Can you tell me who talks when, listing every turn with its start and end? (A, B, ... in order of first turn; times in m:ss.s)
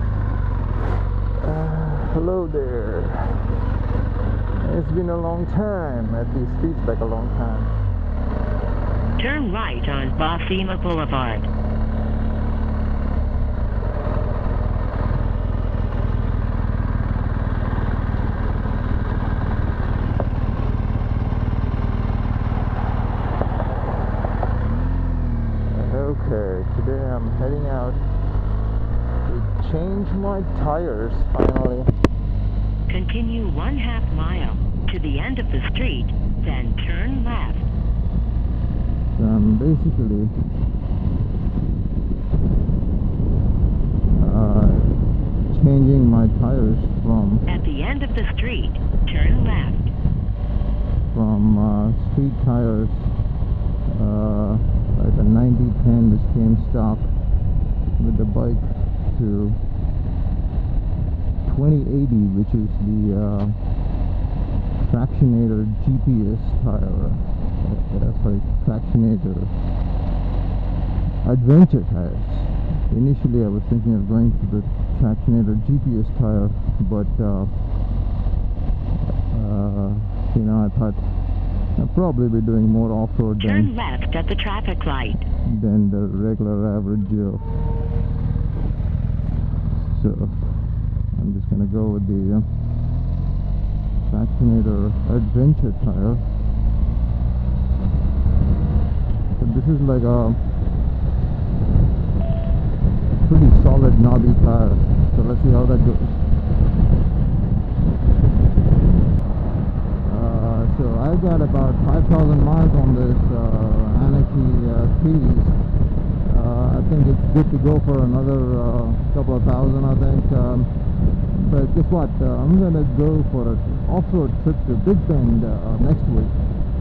0:01.4-0:03.5 A
0:04.6-0:07.7 A
0:09.2-0:11.5 B
0:25.7-0:28.0 A
0:29.2-0:31.9 A
0:32.9-0:37.6 B
0:39.1-0:40.3 A
0:44.1-0:47.4 A
0:47.4-0:49.9 B
0:51.1-0:53.2 A
0:53.9-0:57.1 A
0:58.0-0:59.6 A
1:01.4-1:03.6 A
1:04.8-1:09.6 A
1:11.2-1:17.6 A
1:19.3-1:23.7 A
1:23.4-1:25.2 B
1:25.4-1:27.4 A
1:29.8-1:32.5 A
1:34.0-1:36.3 A
1:39.4-1:40.4 A
1:43.2-1:46.2 A
1:50.0-1:55.6 A
1:56.2-2:06.4 A